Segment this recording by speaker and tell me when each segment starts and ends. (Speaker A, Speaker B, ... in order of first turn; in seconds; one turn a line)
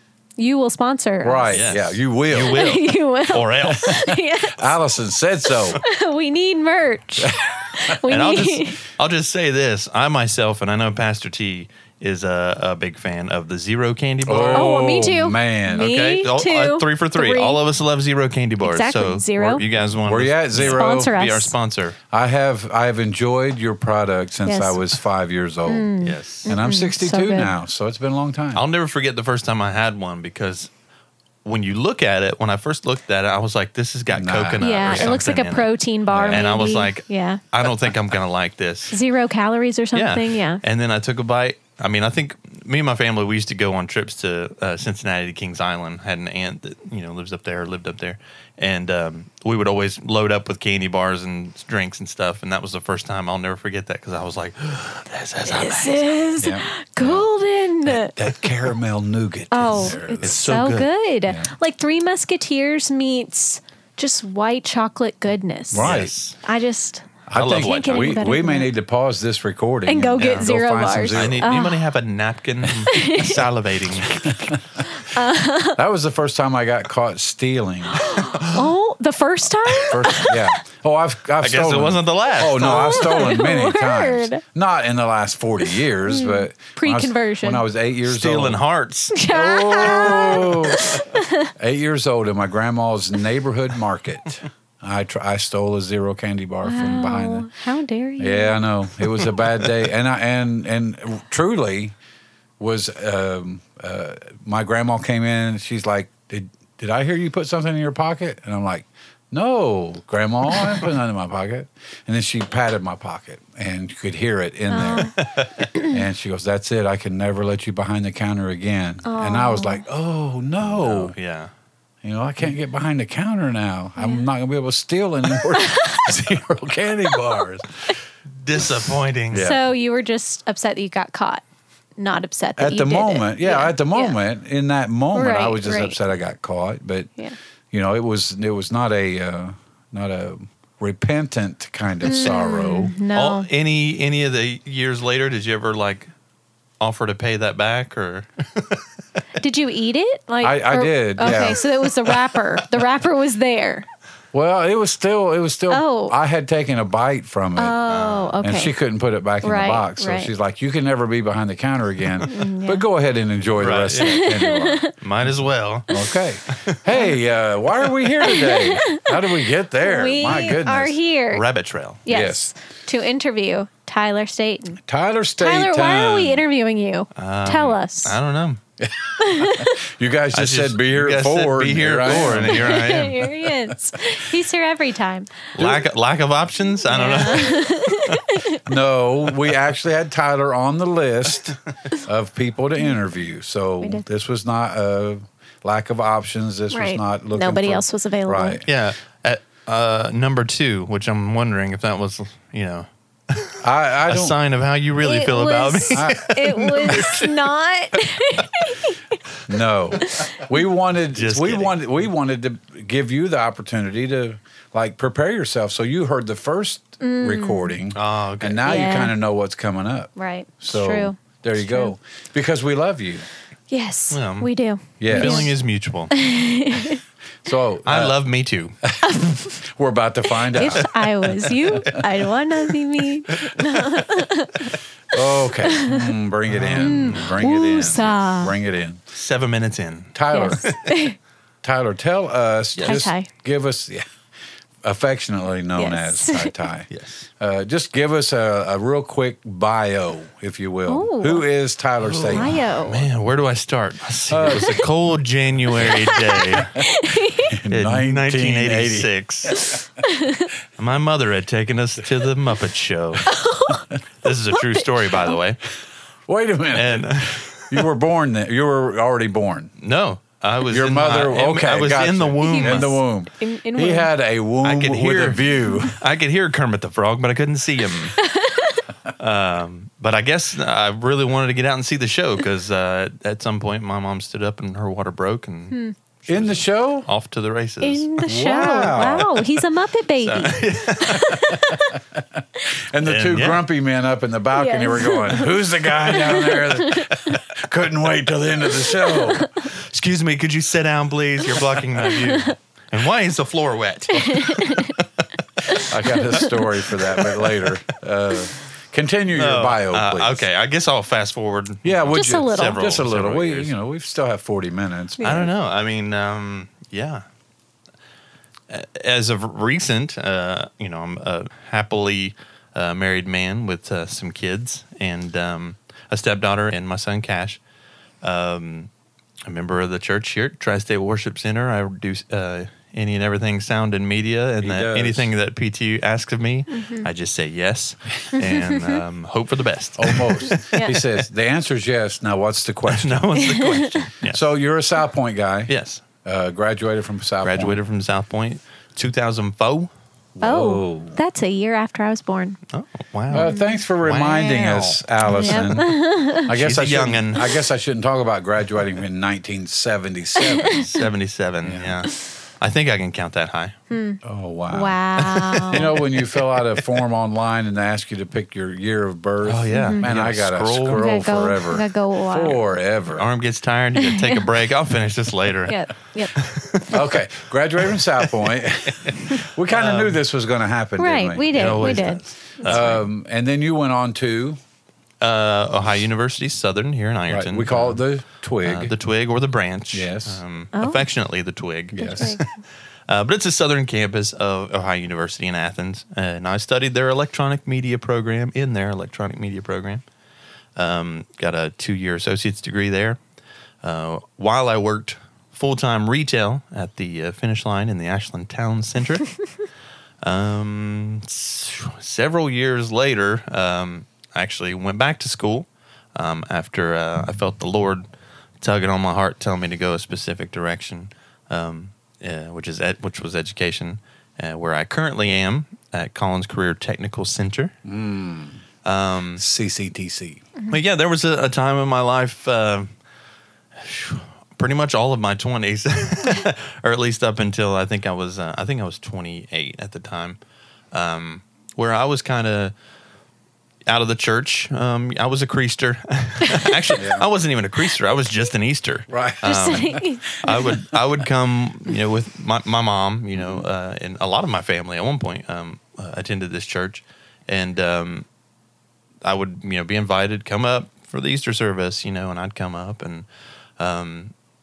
Speaker A: 0.4-1.6
Speaker B: 1.2-2.7
Speaker C: 1.5-4.0
Speaker A: 2.5-4.7
Speaker B: 3.7-5.8
Speaker A: 5.7-8.8
Speaker B: 7.2-7.6
Speaker C: 8.1-14.7
Speaker B: 14.2-15.9
Speaker A: 14.5-17.6
Speaker C: 15.8-22.0
Speaker A: 18.6-19.6
Speaker B: 20.0-21.1
Speaker A: 20.6-21.5
Speaker B: 22.1-25.9
Speaker A: 24.4-24.8
Speaker A: 25.7-27.5
Speaker C: 26.0-26.5
Speaker B: 26.4-28.6
Speaker C: 28.5-30.7
Speaker C: 31.4-39.0
Speaker B: 34.1-35.2
Speaker A: 34.6-37.4
Speaker B: 36.1-36.5
Speaker A: 38.9-40.6
Speaker C: 39.9-56.1
Speaker A: 55.5-58.1
Speaker B: 56.4-57.2
Speaker B: 57.9-60.4
Speaker A: 59.5-68.7
Speaker C: 60.2-60.9
Speaker B: 61.2-61.5
Speaker B: 65.7-66.1
Speaker C: 65.8-66.4
Speaker B: 67.3-71.5
Speaker C: 67.3-68.2
Speaker A: 69.8-71.8
Speaker C: 70.2-70.5
Speaker C: 71.1-74.3
Speaker A: 72.8-73.4
Speaker B: 74.2-74.6
Speaker A: 74.8-75.8
Speaker B: 75.8-78.2
Speaker A: 77.9-80.5
Speaker C: 78.2-78.7
Speaker B: 79.9-88.6
Speaker C: 81.4-83.3
Speaker A: 82.6-84.4
Speaker A: 86.0-87.6
Speaker C: 88.0-89.2
Speaker A: 89.1-91.5
Speaker B: 89.3-91.0
Speaker C: 89.8-90.5
Speaker B: 91.5-97.5
Speaker A: 96.6-98.6
Speaker B: 98.2-101.9
Speaker B: 102.6-115.2
Speaker A: 114.7-115.2
Speaker C: 115.1-115.6
Speaker B: 115.8-121.1
Speaker A: 119.0-119.8
Speaker C: 120.6-121.5
Speaker B: 122.0-127.9
Speaker A: 124.0-124.3
Speaker A: 125.5-126.0
Speaker C: 128.4-129.5
Speaker B: 128.6-129.6
Speaker A: 129.3-131.4
Speaker A: 132.0-134.2
Speaker B: 132.6-137.1
Speaker A: 135.1-135.9
Speaker B: 137.7-142.9
Speaker A: 142.0-143.5
Speaker C: 143.1-146.1
Speaker C: 146.8-148.8
Speaker A: 149.4-153.8
Speaker B: 150.4-151.6
Speaker B: 154.3-157.8
Speaker A: 155.7-156.2
Speaker A: 157.6-158.7
Speaker C: 157.9-158.3
Speaker B: 158.4-164.9
Speaker A: 159.4-160.3
Speaker A: 162.2-162.8
Speaker C: 163.6-164.2
Speaker A: 163.9-164.9
Speaker C: 165.0-165.9
Speaker B: 165.9-171.0
Speaker C: 166.5-166.8
Speaker C: 167.9-168.1
Speaker A: 168.2-171.4
Speaker C: 171.3-172.0
Speaker A: 172.1-174.8
Speaker B: 172.1-172.5
Speaker B: 174.8-176.4
Speaker A: 175.4-178.2
Speaker C: 177.2-178.6
Speaker B: 178.9-183.7
Speaker A: 179.2-179.8
Speaker C: 180.3-183.3
Speaker A: 182.1-185.4
Speaker C: 185.5-188.2
Speaker B: 185.6-185.9
Speaker A: 186.9-188.6
Speaker B: 188.6-198.7
Speaker A: 196.7-198.6
Speaker C: 198.6-207.3
Speaker B: 203.6-204.3
Speaker A: 205.0-209.2
Speaker B: 205.9-206.3
Speaker B: 209.5-223.2
Speaker A: 210.0-210.4
Speaker C: 211.1-211.8
Speaker A: 217.0-217.8
Speaker C: 217.9-219.0
Speaker A: 218.7-219.2
Speaker A: 220.2-221.9
Speaker A: 223.7-225.5
Speaker C: 224.1-224.5
Speaker B: 225.0-225.5
Speaker C: 225.0-226.1
Speaker A: 226.1-227.0
Speaker B: 227.4-228.2
Speaker C: 227.8-228.8
Speaker A: 229.0-229.6
Speaker B: 229.6-230.9
Speaker A: 230.4-236.1
Speaker C: 230.6-231.0
Speaker B: 231.8-232.1
Speaker C: 233.4-234.1
Speaker B: 235.1-239.0
Speaker C: 236.5-238.1
Speaker A: 236.8-238.5
Speaker C: 239.1-240.9
Speaker B: 240.1-240.7
Speaker A: 240.3-241.2
Speaker B: 241.6-244.0
Speaker C: 242.8-243.1
Speaker A: 242.8-243.3
Speaker B: 244.8-252.6
Speaker A: 245.8-246.6
Speaker C: 246.9-247.2
Speaker A: 250.9-251.4
Speaker C: 252.0-256.8
Speaker A: 252.3-253.0
Speaker B: 254.3-254.8
Speaker A: 255.8-257.6
Speaker B: 257.5-259.1
Speaker C: 257.7-259.6
Speaker A: 259.6-260.5
Speaker C: 260.8-263.3
Speaker A: 263.2-265.3
Speaker C: 264.2-265.6
Speaker B: 266.3-269.7
Speaker C: 266.7-267.8
Speaker C: 269.8-273.0
Speaker B: 270.7-276.0
Speaker A: 272.4-274.1
Speaker C: 274.6-278.2
Speaker A: 278.2-278.8
Speaker C: 279.2-288.1
Speaker B: 286.3-287.1
Speaker A: 287.8-292.0
Speaker B: 288.2-289.3
Speaker C: 290.1-291.4
Speaker B: 291.5-299.5
Speaker C: 293.0-293.6
Speaker A: 294.5-297.4
Speaker A: 298.9-299.6
Speaker C: 299.7-305.1
Speaker A: 302.3-302.5
Speaker A: 304.1-305.0
Speaker A: 305.7-307.0
Speaker B: 305.9-310.4
Speaker C: 307.0-307.7
Speaker C: 309.3-313.7
Speaker B: 311.8-315.5
Speaker A: 312.1-312.8
Speaker A: 315.2-315.5
Speaker C: 315.2-317.2
Speaker C: 318.7-327.6
Speaker C: 328.2-328.9
Speaker C: 329.5-341.1
Speaker B: 334.6-335.3
Speaker A: 336.7-337.1
Speaker A: 338.3-339.0
Speaker B: 340.0-343.3
Speaker A: 340.7-341.0
Speaker C: 342.9-344.5
Speaker A: 343.3-343.9
Speaker B: 344.3-345.7
Speaker C: 345.7-346.0
Speaker B: 346.2-347.8
Speaker C: 347.4-349.9
Speaker B: 350.4-351.2
Speaker A: 350.4-352.6
Speaker C: 352.7-355.7
Speaker B: 353.3-360.9
Speaker A: 353.3-353.8
Speaker A: 355.2-356.5
Speaker C: 356.5-357.5
Speaker A: 360.6-360.9
Speaker C: 360.7-363.8
Speaker B: 361.6-362.0
Speaker A: 363.9-365.9
Speaker B: 364.2-373.2
Speaker C: 365.2-366.8
Speaker C: 369.4-371.1
Speaker A: 369.7-370.1
Speaker A: 370.9-372.6
Speaker C: 373.1-375.8
Speaker A: 374.0-374.4
Speaker A: 375.7-376.3
Speaker C: 376.3-377.1
Speaker B: 376.9-382.1
Speaker C: 378.0-378.5
Speaker C: 379.7-380.2
Speaker A: 381.0-382.9
Speaker C: 381.5-383.0
Speaker B: 382.6-384.6
Speaker C: 385.2-388.0
Speaker B: 387.3-388.9
Speaker C: 388.6-392.5
Speaker B: 389.9-390.4
Speaker A: 390.7-391.1
Speaker A: 391.9-392.5
Speaker B: 392.0-392.4
Speaker C: 393.1-400.0
Speaker C: 400.8-403.2
Speaker C: 403.8-409.4
Speaker C: 410.2-418.0
Speaker C: 418.6-427.7
Speaker B: 427.8-428.6
Speaker C: 428.8-429.4
Speaker B: 429.4-430.4
Speaker C: 430.7-432.9
Speaker C: 433.7-440.4
Speaker C: 440.9-442.7
Speaker C: 443.9-458.2
Speaker A: 446.5-446.7
Speaker B: 446.9-447.3
Speaker B: 449.1-450.0
Speaker A: 449.4-450.8
Speaker B: 450.5-450.9
Speaker B: 453.3-453.7
Speaker C: 459.2-463.2
Speaker C: 463.8-464.3